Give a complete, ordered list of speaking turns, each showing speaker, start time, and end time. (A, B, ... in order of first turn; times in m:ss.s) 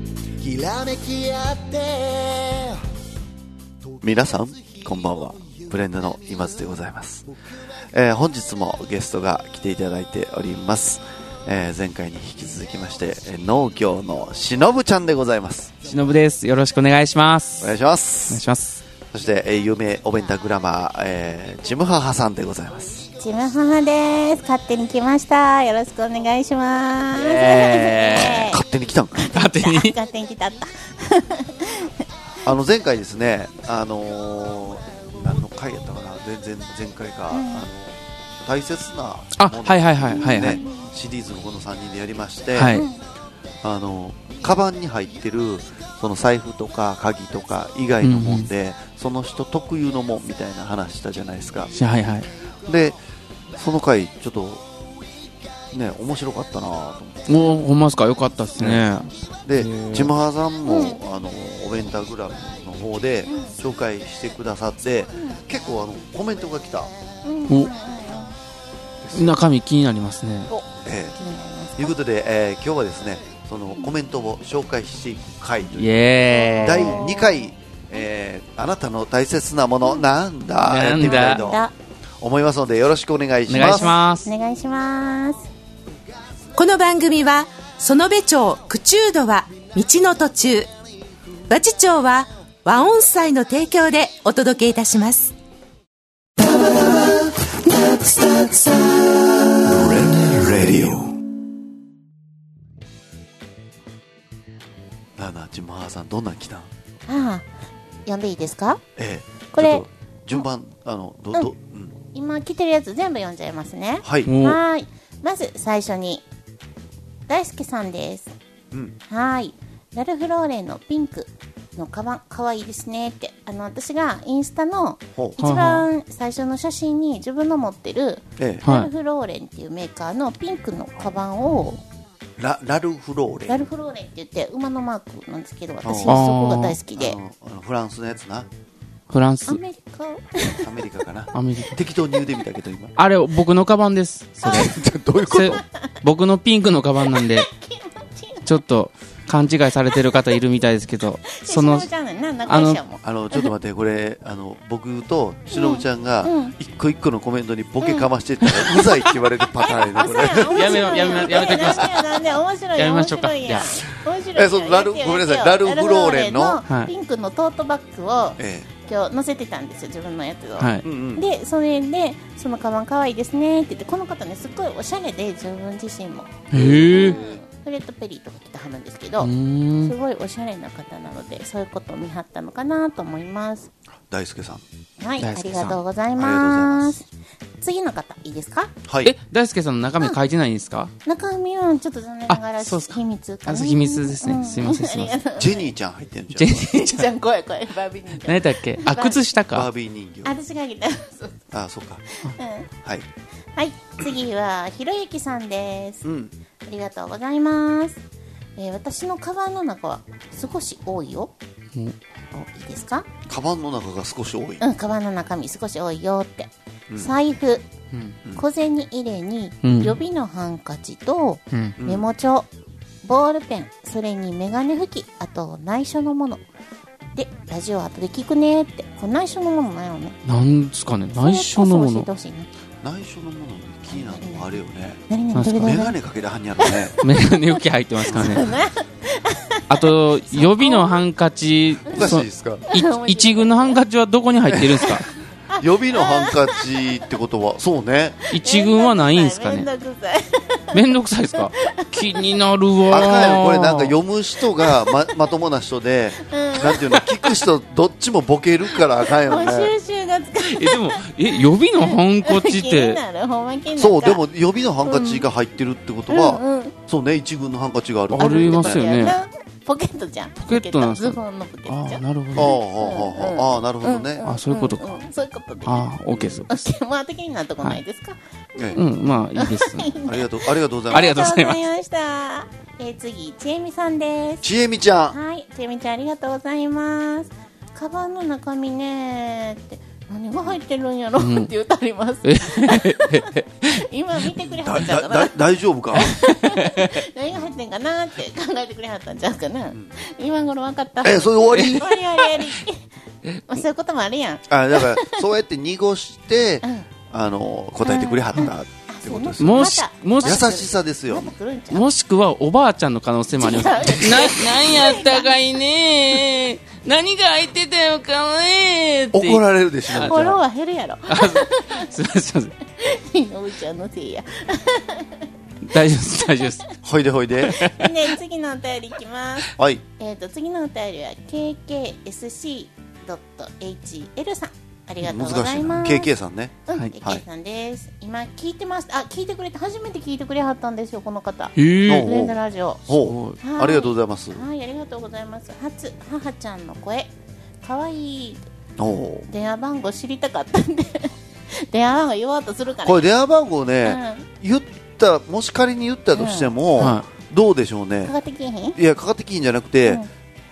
0:00.4-0:02.8 A
0:04.0-0:07.3 B
0:07.9-0:15.8 B
0:15.8-0:17.7 C
0:17.6-0:18.4 B
0:18.3-0:18.8 C
0:19.1-0:23.0 B
0:23.2-0:28.6 D
0:27.1-0:28.5 C
0:28.1-0:29.3 B
0:29.2-0:32.0 D
0:29.3-0:29.9 C
0:32.4-0:42.9 B
0:37.3-0:37.6 D
0:39.4-0:40.6 C
0:40.2-0:40.7 D
0:42.6-0:42.8 C
0:42.7-0:43.0 D
0:43.6-0:51.7 B
0:48.0-0:48.5 C
0:51.7-0:52.3 C
0:52.6-0:53.0 B
0:53.6-0:54.6 B
0:55.7-0:57.5 B
0:57.3-1:00.1 C
0:58.6-0:58.9 B
0:59.4-1:06.9 B
1:00.7-1:01.0 D
1:03.3-1:03.5 D
1:07.2-1:08.3 D
1:09.0-1:09.4 B
1:09.1-1:10.5 C
1:10.5-1:11.9 D
1:10.8-1:11.2 B
1:11.8-1:16.0 B
1:15.7-1:17.0 C
1:16.4-1:17.4 D
1:16.6-1:21.6 B
1:20.6-1:21.4 C
1:21.0-1:21.7 D
1:22.2-1:24.0 B
1:23.5-1:24.3 C
1:23.6-1:25.5 D
1:26.6-1:30.7 E
1:31.5-1:35.3 E
1:36.4-1:40.1 A
1:39.6-1:41.2 B
1:45.2-1:46.7 B
1:47.1-1:47.5 D
1:48.0-1:48.8 D
1:49.0-1:51.9 B
1:49.5-1:50.4 D
1:52.1-1:56.2 D
1:54.0-1:54.3 B
1:54.2-1:54.6 C
1:57.3-1:58.3 D
1:59.1-2:11.8 D
2:05.4-2:05.8 C
2:08.4-2:08.6 B
2:08.6-2:08.9 C
2:12.4-2:13.7 B
2:13.5-2:17.2 D
2:15.8-2:16.2 B
2:16.1-2:16.8 C
2:16.9-2:18.5 B
2:19.1-2:19.6 C
2:19.4-2:21.0 D
2:20.6-2:22.9 B
2:21.3-2:21.8 C
2:23.0-2:24.7 C
2:24.4-2:24.8 D
2:24.4-2:25.6 B
2:25.3-2:25.9 D
2:25.3-2:27.5 C
2:27.0-2:28.6 D
2:28.4-2:31.9 C
2:29.9-2:30.2 D
2:31.3-2:33.5 D
2:32.5-2:32.8 C
2:33.0-2:41.8 B
2:35.5-2:36.5 D
2:37.8-2:38.1 D
2:38.4-2:39.1 C
2:39.6-3:03.7 D
2:40.5-2:43.8 C
2:44.3-2:46.6 B
2:48.4-2:48.7 B
2:50.6-2:50.8 C
2:50.8-2:51.2 B
2:56.5-2:57.2 C
2:56.5-2:57.4 B
2:59.2-2:59.9 C
3:04.1-3:04.6 B
3:05.0-3:07.1 D
3:05.2-3:05.8 C
3:06.2-3:07.0 B
3:07.6-3:08.7 D
3:08.8-3:09.1 B
3:09.0-3:10.9 C
3:11.0-3:15.7 D
3:12.3-3:15.1 C
3:15.4-3:16.7 B
3:16.4-3:17.1 C
3:16.6-3:19.3 D
3:18.2-3:19.7 C
3:19.5-3:20.4 B
3:20.2-3:21.4 D
3:21.5-3:22.0 B
3:22.2-3:22.7 D
3:23.6-3:26.0 D
3:26.0-3:26.3 B
3:26.6-3:28.0 D
3:28.6-3:31.3 D
3:32.3-3:33.1 D
3:33.3-3:34.6 B
3:34.6-3:37.7 D
3:36.9-3:37.1 B
3:37.9-3:38.2 C
3:38.3-3:42.5 D
3:39.6-3:40.0 C
3:41.5-3:41.8 C
3:41.8-3:42.0 B
3:43.0-3:46.4 D
3:47.2-3:50.2 D
3:50.2-3:52.1 C
3:50.9-3:52.5 D
3:52.8-3:55.0 B
3:53.9-3:54.5 D
3:55.1-3:56.0 D
3:55.3-3:55.9 C
3:55.5-3:56.9 B
3:56.6-4:01.0 D
3:57.0-3:58.5 C
3:58.1-3:58.5 B
3:59.7-4:05.1 C
4:01.8-4:03.8 D
4:01.9-4:02.6 B
4:04.5-4:04.9 B
4:05.0-4:06.9 D
4:05.6-4:08.2 B
4:08.3-4:10.8 D
4:08.3-4:09.7 C
4:10.7-4:13.9 C
4:11.4-4:12.4 D
4:12.9-4:19.7 B
4:14.6-4:14.9 D
4:16.2-4:17.0 D
4:19.2-4:24.2 D
4:20.4-4:23.0 C
4:23.8-4:29.1 B
4:24.8-4:25.2 D
4:26.1-4:26.8 D
4:28.1-4:29.2 C
4:28.1-4:35.8 D
4:30.4-4:32.5 C
4:32.3-4:34.2 B
4:34.2-4:34.8 C
4:35.6-4:36.6 C
4:36.1-4:36.4 B
4:36.5-4:38.2 D
4:38.6-4:38.8 B
4:38.7-4:39.9 C
4:39.3-4:44.5 D
4:40.0-4:41.1 B
4:40.9-4:41.6 C
4:44.4-4:45.2 B
4:45.1-4:55.3 D
4:51.2-4:51.5 C
4:52.2-4:53.8 C
4:54.6-4:56.2 B
4:55.9-5:02.8 D
4:56.6-4:56.9 C
5:01.0-5:01.9 B
5:01.5-5:02.5 C
5:03.2-5:03.6 C
5:03.5-5:05.2 D
5:04.5-5:09.7 B
5:07.8-5:11.9 D
5:09.4-5:10.4 C
5:10.2-5:11.3 B
5:11.7-5:19.4 C
5:13.4-5:15.3 D
5:19.1-5:20.4 B
5:19.9-5:21.9 D
5:21.1-5:22.5 C
5:22.8-5:25.3 D
5:25.7-5:26.6 C
5:26.3-5:26.7 D
5:26.8-5:27.6 B
5:27.4-5:27.9 C
5:27.5-5:36.1 D
5:29.5-5:29.8 B
5:35.0-5:37.2 B
5:36.7-5:42.9 D
5:41.6-5:42.1 C
5:41.8-5:44.4 B
5:42.9-5:43.4 C
5:43.4-5:48.4 D
5:48.8-5:49.3 B
5:49.3-5:53.1 D
5:52.8-5:58.1 B
5:53.8-5:54.3 D
5:56.2-5:56.5 D
5:56.8-5:57.0 C
5:58.0-5:58.8 D
5:58.8-6:00.0 B